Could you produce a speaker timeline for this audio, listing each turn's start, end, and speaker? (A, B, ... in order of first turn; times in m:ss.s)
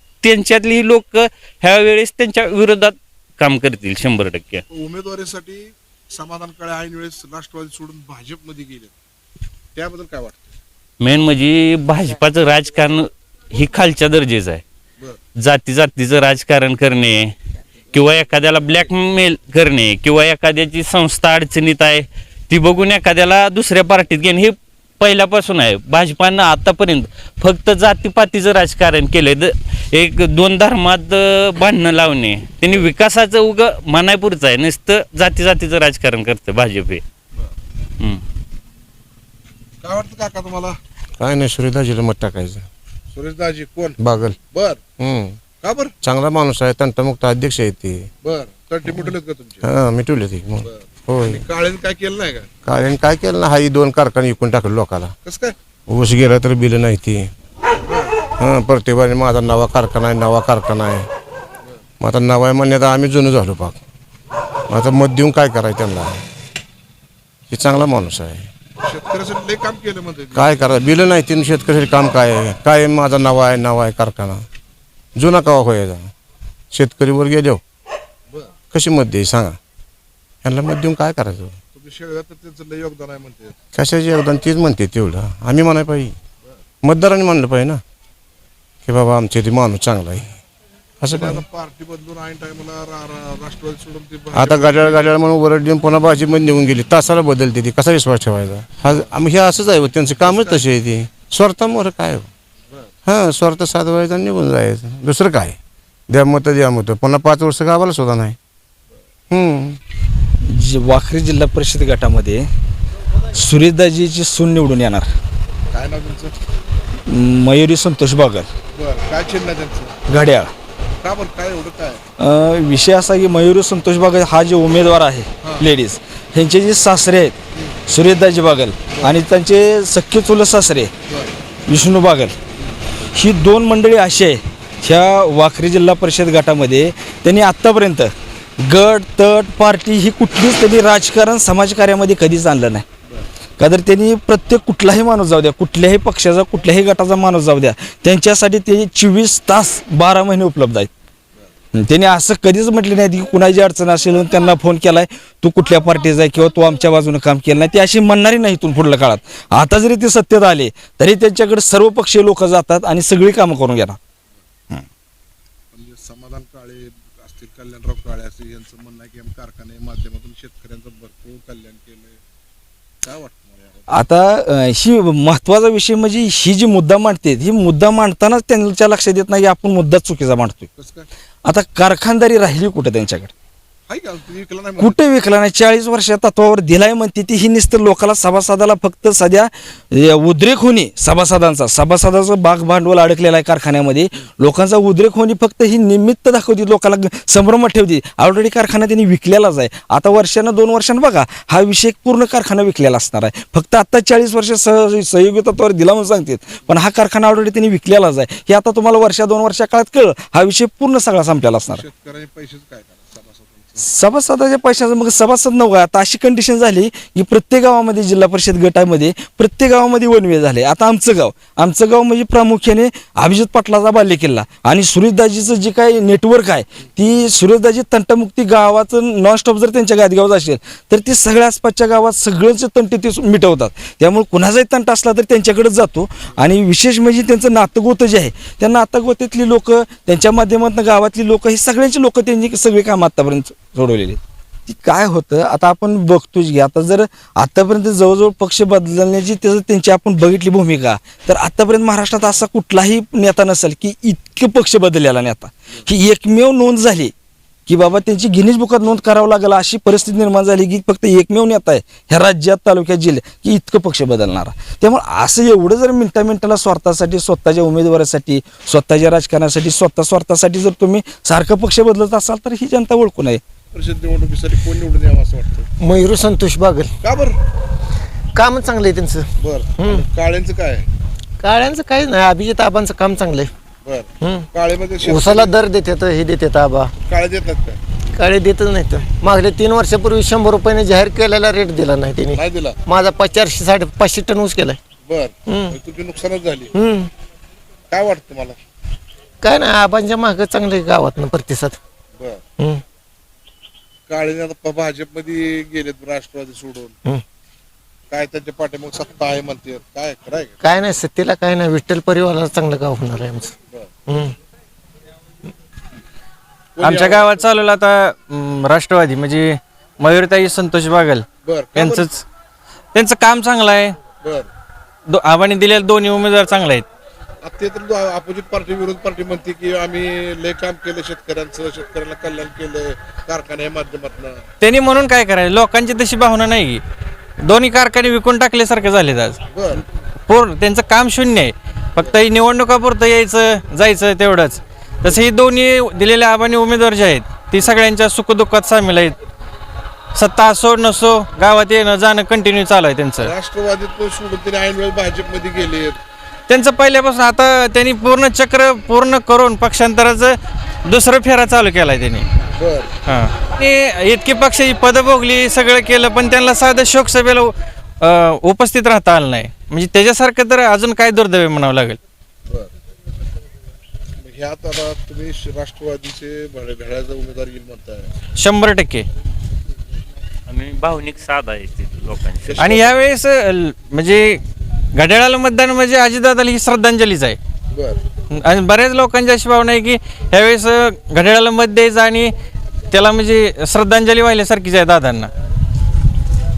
0:00.2-0:04.6 A
0:04.7-0:08.9 B
0:09.7-0:10.4 B
0:11.0-0:14.6 A
0:15.4-0:17.3 A
0:17.9-0:37.0 A
0:39.8-0:40.8 B
0:41.2-0:42.7 C
0:43.1-0:44.8 B
0:44.0-0:44.4 C
0:45.0-0:45.4 C
0:45.5-0:45.9 B
0:46.0-0:48.1 C
0:48.2-0:49.7 B
0:49.6-0:51.4 C
0:50.6-0:52.5 B
0:52.6-0:55.1 C
0:55.2-0:55.6 B
0:55.9-0:57.3 C
0:57.8-0:58.1 B
0:58.4-1:01.1 C
1:02.0-1:03.8 C
1:04.7-1:06.2 C
1:07.5-1:08.5 C
1:08.8-1:10.6 B
1:10.3-1:14.4 C
1:15.2-1:16.1 C
1:16.7-1:17.6 C
1:18.3-1:18.6 B
1:18.7-1:19.6 C
1:20.4-1:21.6 C
1:21.7-1:23.6 B
1:23.7-1:26.1 C
1:26.8-1:27.8 C
1:28.8-1:30.3 C
1:31.0-1:31.4 C
1:31.1-1:35.2 B
1:34.3-1:42.3 C
1:38.8-1:39.2 B
1:40.1-1:40.6 B
1:43.0-1:45.6 C
1:46.1-1:48.4 C
1:49.3-1:49.8 C
1:50.4-1:52.4 D
1:53.3-1:55.1 D
1:55.7-1:56.3 B
1:57.1-1:58.5 D
1:58.7-2:00.0 B
2:00.1-2:00.5 D
2:01.0-2:02.0 B
2:02.2-2:07.4 D
2:05.4-2:05.7 B
2:07.5-2:07.8 B
2:07.9-2:10.9 D
2:08.9-2:09.1 B
2:11.1-2:11.4 B
2:11.7-2:12.4 D
2:13.1-2:22.8 D
2:23.6-2:30.9 D
2:31.7-2:44.0 D
2:45.7-2:52.2 B
2:53.0-2:54.0 B
2:53.9-3:00.7 D
3:00.8-3:01.1 B
3:01.4-3:03.3 D
3:03.9-3:05.0 B
3:04.8-3:31.8 D
3:31.7-3:33.9 B
3:33.8-4:17.1 D
4:17.7-4:33.4 D
4:33.7-4:35.7 B
4:35.8-4:36.9 E
4:37.0-4:37.4 B
4:38.3-4:40.0 E
4:39.4-4:40.9 B
4:41.4-4:43.5 E
4:43.8-4:45.6 B
4:44.2-4:44.5 E
4:45.0-4:46.9 E
4:47.0-4:47.8 B
4:48.1-4:54.8 E
4:52.3-4:52.8 B
4:55.0-4:56.7 B
4:55.4-4:55.8 E
4:56.7-4:57.1 E
4:57.9-4:58.6 B
4:59.4-5:01.8 E
5:02.2-5:02.4 B
5:02.6-5:02.8 E
5:04.1-5:07.0 B
5:08.1-5:10.6 B
5:10.6-5:13.5 E
5:14.1-5:14.4 E
5:16.8-5:17.4 B
5:16.8-5:22.2 F
5:21.4-5:22.1 B
5:22.9-5:24.0 F
5:24.2-5:24.5 B
5:25.1-5:26.8 F
5:27.4-5:34.4 B
5:34.6-5:36.8 F
5:37.4-5:39.4 F
5:39.5-5:39.8 B
5:40.3-5:49.2 F
5:50.1-5:53.3 F
5:53.2-5:56.0 B
5:56.5-6:02.2 F
6:02.6-6:02.9 B
6:03.0-6:12.0 F
6:14.2-6:18.1 B
6:18.3-6:19.1 F
6:20.5-6:22.7 A
6:22.4-6:23.0 B
6:22.6-6:24.4 F
6:24.9-6:27.4 F
6:27.7-6:28.0 B
6:28.3-6:32.3 F
6:32.9-6:35.3 F